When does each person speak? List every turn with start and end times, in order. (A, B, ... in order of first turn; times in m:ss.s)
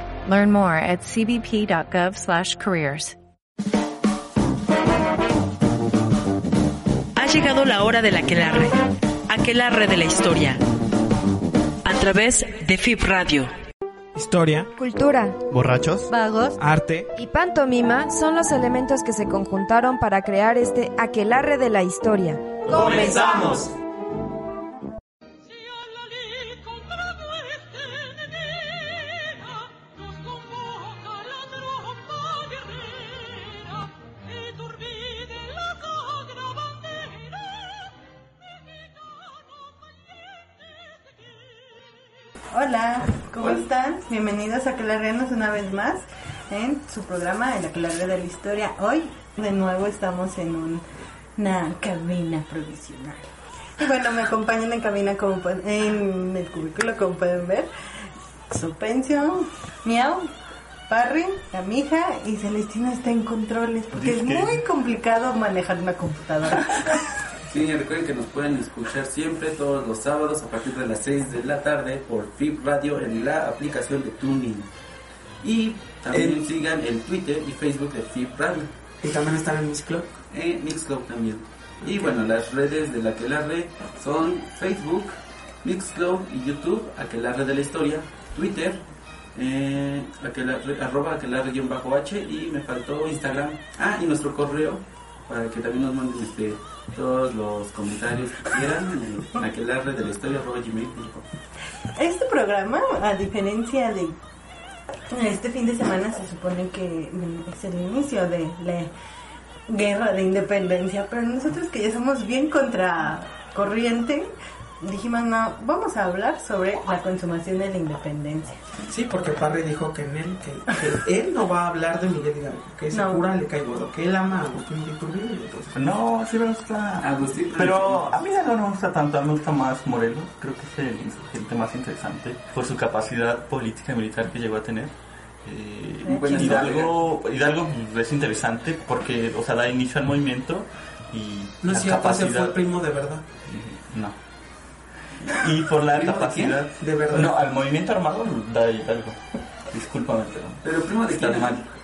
0:00.2-0:03.2 A
0:07.2-0:10.6 B
0:11.8-0:13.5 B
0:14.7-0:15.4 C
0:16.1-0:16.6 C
0:17.1-0:23.7 C
0:42.5-0:50.8 D
0:51.4-0:57.7 D
0:58.5-1:00.3 D
1:00.9-1:07.0 D
1:03.9-1:04.6 E
1:07.5-1:14.7 F
1:15.4-1:18.7 F
1:16.1-1:16.4 G
1:19.0-1:20.2 G
1:20.3-1:28.8 F
1:21.8-1:22.2 G
1:29.3-1:41.2 F
1:41.9-1:44.2 D
1:45.1-1:48.9 D
1:49.7-1:54.3 D
1:54.8-1:58.6 D
1:58.8-2:05.8 G
2:02.9-2:03.2 D
2:05.7-2:22.6 E
2:07.0-2:08.0 F
2:16.0-2:16.4 D
2:16.1-2:16.9 F
2:21.6-2:23.2 G
2:23.4-2:24.2 E
2:25.2-2:29.2 E
2:25.9-2:26.6 F
2:26.8-2:27.4 G
2:29.7-2:31.6 E
2:30.6-2:31.7 F